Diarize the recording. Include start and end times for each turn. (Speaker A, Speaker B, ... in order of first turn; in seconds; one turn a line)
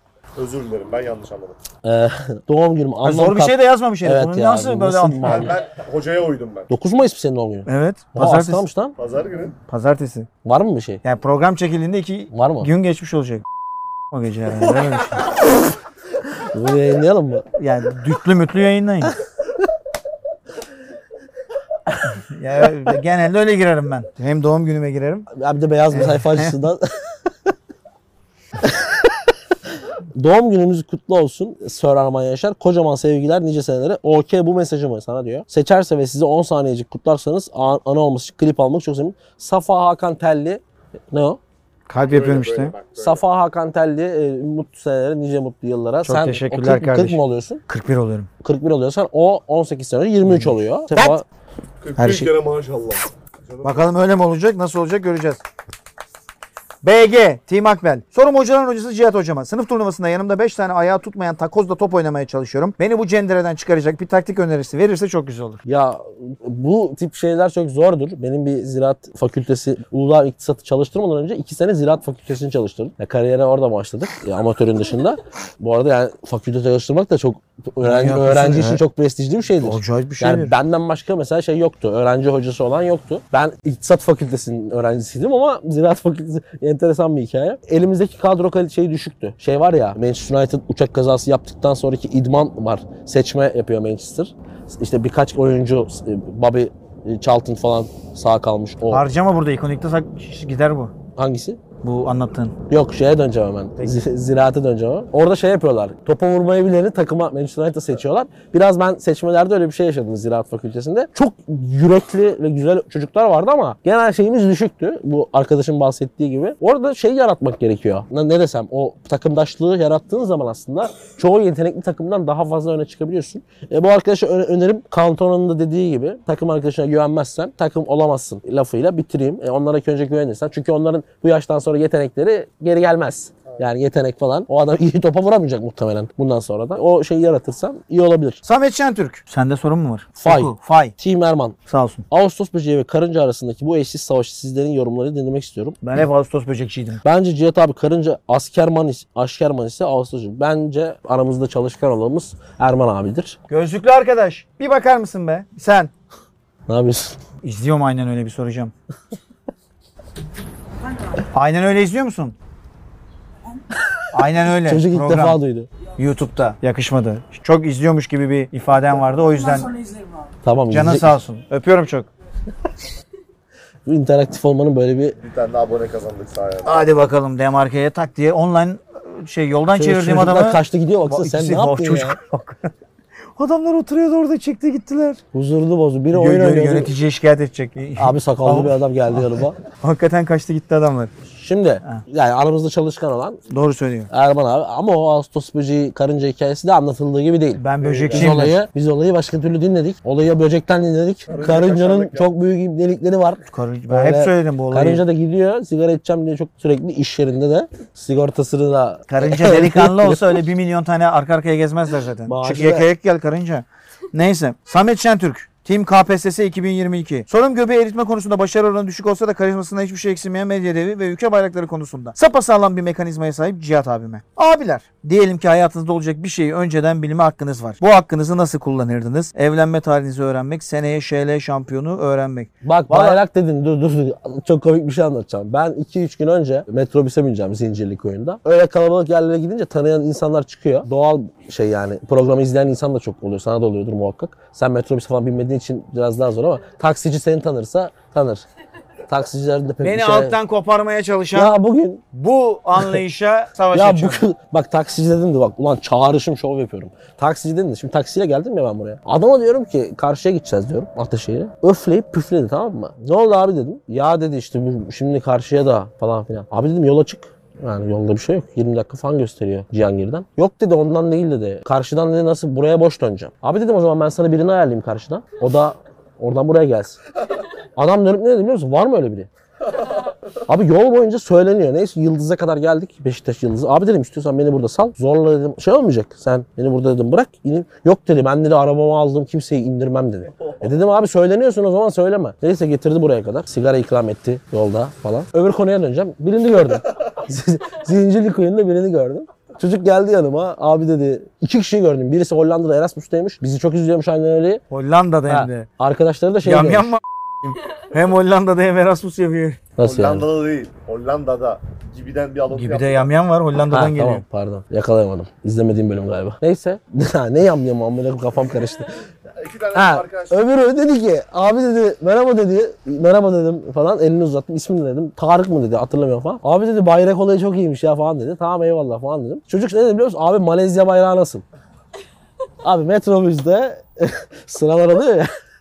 Speaker A: 0.3-1.6
Speaker B: 1.8-5.6
Speaker C: 3.0-5.5
Speaker A: 5.2-6.7
Speaker B: 6.7-8.9
Speaker C: 7.7-8.6
Speaker A: 9.0-9.5
Speaker C: 9.7-10.3
Speaker B: 10.4-11.0
Speaker C: 11.0-13.4
Speaker B: 12.3-12.7
Speaker C: 14.1-15.3
Speaker B: 16.3-17.5
Speaker C: 17.6-19.1
Speaker C: 22.1-25.3
Speaker B: 25.3-27.1
Speaker C: 25.9-26.6
Speaker B: 28.6-29.2
Speaker B: 30.1-41.4
Speaker C: 41.9-42.7
Speaker A: 42.1-43.2
Speaker B: 43.0-47.6
Speaker C: 46.0-48.3
Speaker B: 48.4-51.2
Speaker C: 50.2-51.2
Speaker A: 51.8-53.8
Speaker C: 52.0-52.3
Speaker C: 53.6-55.4
Speaker C: 56.8-65.6
Speaker B: 65.6-99.0
Speaker C: 77.8-78.8
Speaker C: 79.6-80.5
Speaker C: 98.9-100.9
Speaker B: 101.2-101.6
Speaker C: 101.8-102.5
Speaker B: 102.7-138.4
Speaker C: 138.4-140.9
Speaker B: 140.2-141.6
Speaker C: 141.7-142.0
Speaker B: 142.1-145.8
Speaker C: 145.8-147.0
Speaker B: 147.0-153.4
Speaker C: 153.5-155.9
Speaker B: 156.7-157.2
Speaker C: 157.4-158.7
Speaker C: 161.3-162.3
Speaker B: 163.7-164.0
Speaker C: 164.1-165.4
Speaker B: 164.6-165.7
Speaker C: 166.0-169.7
Speaker B: 170.4-171.1
Speaker C: 170.7-172.1
Speaker B: 173.8-175.2
Speaker A: 175.2-176.8
Speaker C: 176.6-182.7
Speaker B: 179.8-182.2
Speaker C: 183.3-185.2
Speaker B: 185.3-186.9
Speaker C: 186.1-191.1
Speaker B: 188.0-189.6
Speaker B: 191.3-193.4
Speaker C: 193.5-194.1
Speaker B: 194.1-210.4
Speaker C: 197.6-198.6
Speaker A: 197.8-198.3
Speaker A: 201.3-202.3
Speaker C: 203.5-205.0
Speaker C: 209.1-233.2
Speaker B: 212.2-212.9
Speaker B: 232.6-248.4
Speaker B: 249.1-250.4
Speaker C: 249.8-251.5
Speaker B: 251.3-252.0
Speaker C: 252.1-254.2
Speaker B: 253.7-277.0
Speaker B: 277.8-279.3
Speaker B: 280.4-304.6
Speaker C: 304.7-305.7
Speaker B: 305.3-306.9
Speaker C: 306.4-309.6
Speaker B: 309.8-310.3
Speaker A: 309.8-313.1
Speaker C: 312.5-314.2
Speaker B: 313.6-319.0
Speaker A: 319.3-320.4
Speaker B: 319.7-331.4
Speaker B: 332.6-335.3